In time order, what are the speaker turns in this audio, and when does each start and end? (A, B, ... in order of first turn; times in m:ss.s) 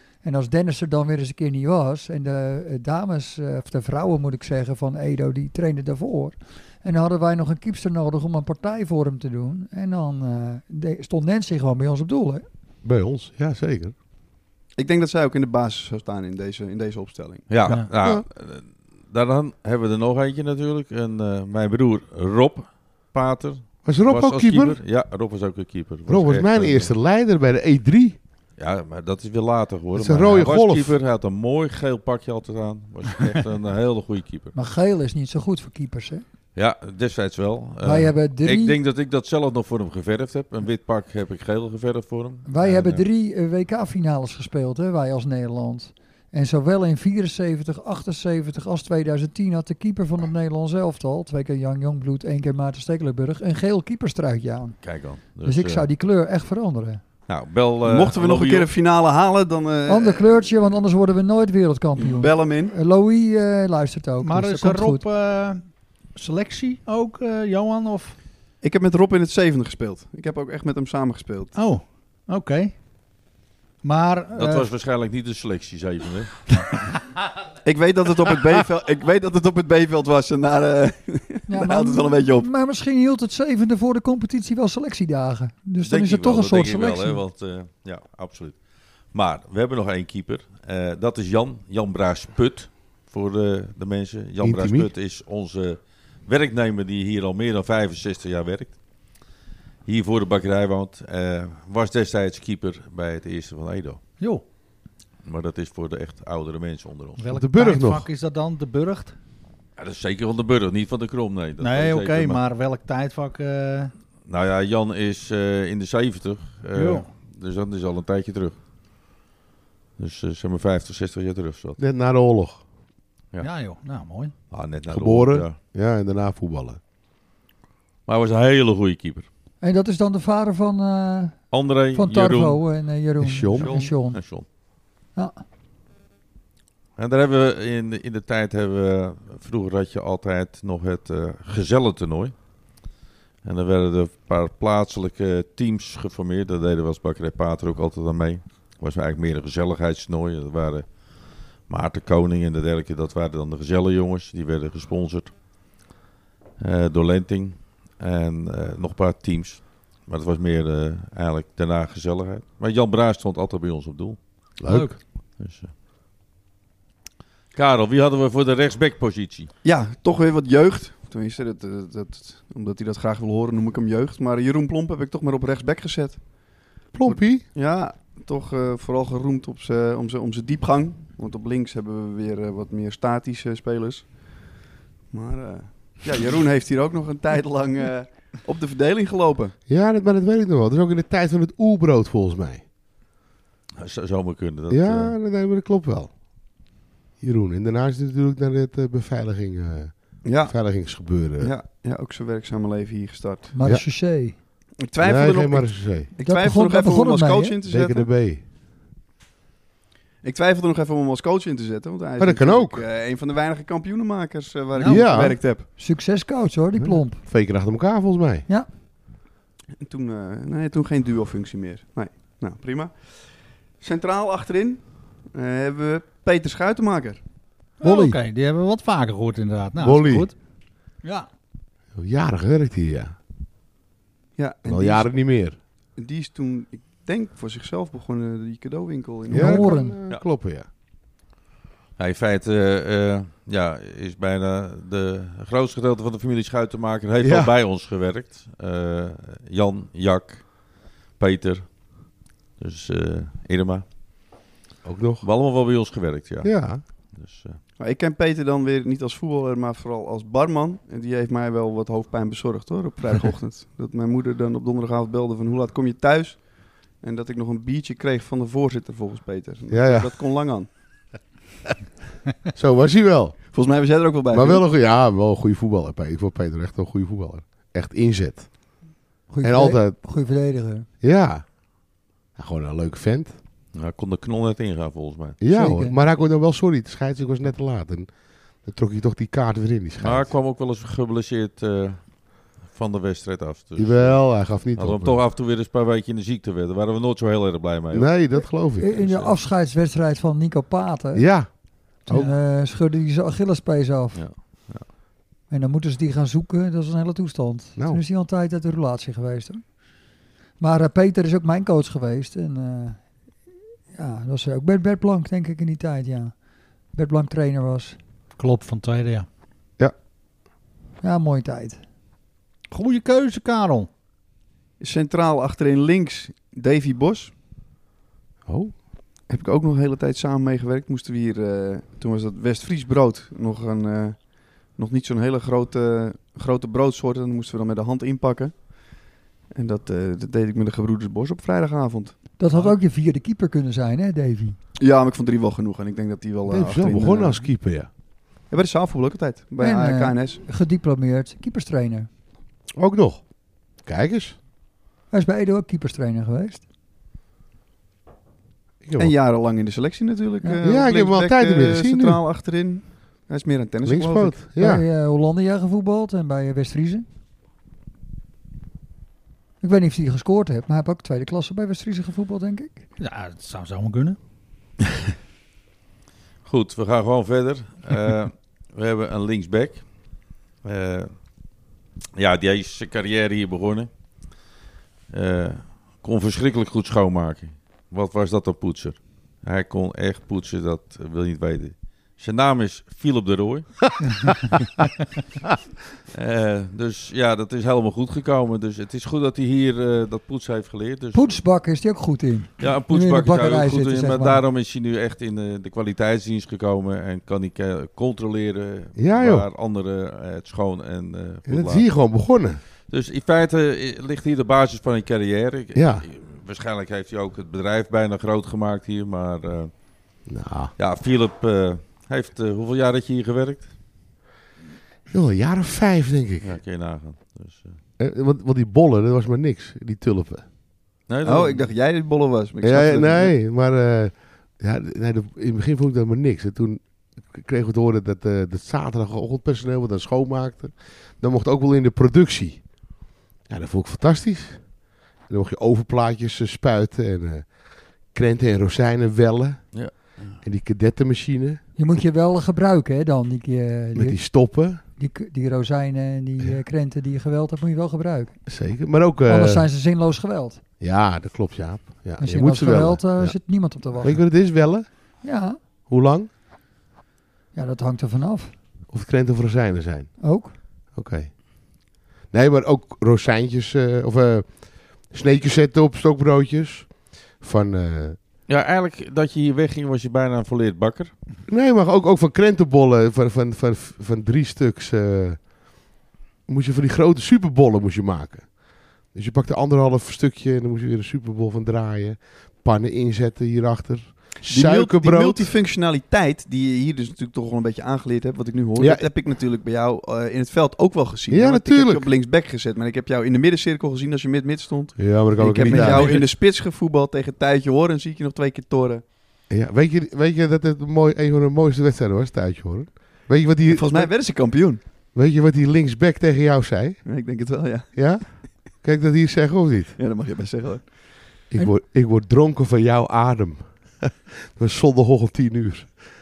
0:00.2-0:12.5 A
0:12.8-0:13.9 B
0:14.8-0:17.5 C
0:17.5-0:26.9 D
0:23.8-0:24.8 B
0:26.1-0:28.2 B
0:28.6-0:34.6 D
0:30.0-0:31.0 B
0:34.6-0:36.2 A
0:36.6-0:43.0 D
0:37.8-0:38.8 A
0:42.5-0:54.8 A
0:54.8-0:55.9 D
0:55.4-0:57.0 A
0:57.3-0:58.7 D
0:57.8-1:00.3 C
0:59.9-1:05.0 A
1:02.0-1:02.8 C
1:04.2-1:08.2 E
1:08.6-1:11.6 C
1:11.6-1:12.8 E
1:13.8-1:14.7 E
1:14.4-1:16.7 D
1:17.6-1:22.5 C
1:21.5-1:27.2 A
1:25.8-1:28.6 D
1:29.1-1:38.8 D
1:34.4-1:34.9 B
1:39.9-1:44.0 D
1:45.2-1:47.3 D
1:47.2-1:49.2 E
1:47.3-1:48.1 B
1:49.8-1:52.4 D
1:51.6-1:53.9 E
1:54.3-1:58.6 D
1:56.8-1:57.1 E
2:00.0-2:01.8 D
2:01.8-2:02.6 B
2:03.4-2:04.4 E
2:04.5-2:05.6 D
2:04.9-2:06.8 B
2:08.1-2:09.3 D
2:09.6-2:11.4 A
2:11.5-2:12.6 D
2:11.9-2:14.2 A
2:13.2-2:13.8 B
2:13.6-2:14.5 D
2:17.0-2:22.3 D
2:23.4-2:31.0 D
2:31.6-2:35.3 D
2:36.6-2:44.2 D
2:44.6-2:45.0 B
2:44.7-2:45.0 E
2:45.4-2:45.7 D
2:47.5-2:49.5 D
2:49.6-3:04.5 C
2:56.9-2:57.5 B
3:05.1-3:09.6 C
3:09.7-3:12.6 B
3:13.8-3:15.2 D
3:14.7-3:16.1 B
3:17.2-3:21.5 B
3:20.2-3:23.5 C
3:23.5-3:24.4 A
3:24.8-3:28.1 C
3:25.0-3:26.1 B
3:26.2-3:27.6 A
3:27.7-3:28.4 B
3:30.2-3:35.7 C
3:32.2-3:32.8 B
3:34.8-3:35.1 E
3:34.9-3:35.4 B
3:35.8-3:37.2 A
3:36.8-3:38.5 B
3:39.8-3:43.2 C
3:43.8-3:47.2 C
3:47.8-3:50.4 E
3:47.8-3:48.2 A
3:49.8-3:50.3 B
3:51.0-3:51.3 E
3:52.0-3:53.2 B
3:54.4-3:55.2 C
3:54.7-3:55.6 B
3:56.0-3:59.7 C
3:59.3-4:00.7 B
3:59.3-4:00.0 A
4:02.0-4:12.1 D
4:07.2-4:07.5 B
4:12.6-4:13.8 D
4:14.8-4:15.2 B
4:15.2-4:17.6 D
4:16.4-4:16.8 B
4:17.8-4:30.7 C
4:29.7-4:30.1 B
4:32.5-4:33.4 B
4:33.5-4:34.6 C
4:34.3-4:38.5 B
4:39.3-4:40.9 A
4:39.4-4:40.0 B
4:41.0-4:41.5 B
4:42.4-4:43.3 B
4:43.7-4:45.4 D
4:45.4-4:50.3 B
4:45.5-4:46.0 A
4:50.0-4:58.2 D
4:53.8-4:55.2 B
4:57.9-4:59.3 B
4:58.8-5:04.7 A
5:01.2-5:02.3 B
5:04.1-5:04.9 D
5:05.5-5:09.7 A
5:07.8-5:08.0 B
5:10.6-5:13.1 A
5:13.9-5:16.3 A
5:16.9-5:18.0 A
5:18.4-5:19.3 E
5:21.0-5:21.8 A
5:22.7-5:23.9 E
5:24.8-5:27.3 C
5:28.5-5:28.8 B
5:29.3-5:42.7 C
5:42.4-5:44.6 A
5:44.8-5:47.5 C
5:46.5-5:47.9 B
5:48.5-5:50.4 C
5:49.6-5:52.1 A
5:52.8-5:53.2 B
5:53.8-5:54.4 B
5:55.1-5:56.6 A
5:58.8-5:59.1 B
5:59.0-6:04.4 C
6:00.6-6:02.2 B
6:03.8-6:04.8 B
6:04.6-6:07.0 A
6:09.6-6:12.8 A
6:13.0-6:14.2 E
6:16.4-6:20.1 D
6:20.6-6:21.1 D
6:22.2-6:23.9 D
6:25.1-6:34.5 D
6:36.1-6:41.4 D
6:41.1-6:44.4 A
6:42.6-6:51.9 D
6:49.0-6:49.5 B
6:51.5-6:52.6 B
6:52.9-6:59.7 D
6:55.8-6:56.1 B
7:00.3-7:00.7 B
7:00.8-7:03.7 D
7:05.1-7:06.6 B
7:06.4-7:07.8 D
7:08.0-7:10.5 B
7:11.1-7:11.7 D
7:11.2-7:13.3 C
7:12.6-7:22.8 B
7:23.5-7:24.7 B
7:25.3-7:31.6 B
7:29.7-7:30.4 D
7:31.8-7:34.3 A
7:34.0-7:34.8 B
7:35.0-7:38.4 A
7:38.5-7:39.7 B
7:39.3-7:40.6 A
7:40.8-7:43.4 B
7:42.2-7:44.2 A
7:43.9-7:44.9 B
7:45.2-7:45.6 A
7:45.9-7:46.3 B
7:47.5-7:48.5 A
7:48.9-7:50.2 B
7:50.2-7:50.6 A
7:50.9-7:58.2 B
7:58.5-8:01.1 D
8:01.5-8:05.5 B
8:06.5-8:15.5 B
8:14.4-8:29.0 C
8:18.8-8:19.1 B
8:21.3-8:22.1 B
8:25.0-8:26.3 B
8:29.5-8:34.1 B
8:33.7-8:34.8 C
8:35.2-8:37.0 B
8:37.0-8:38.3 C
8:37.9-8:40.0 B
8:40.0-8:41.0 C
8:41.5-8:46.0 B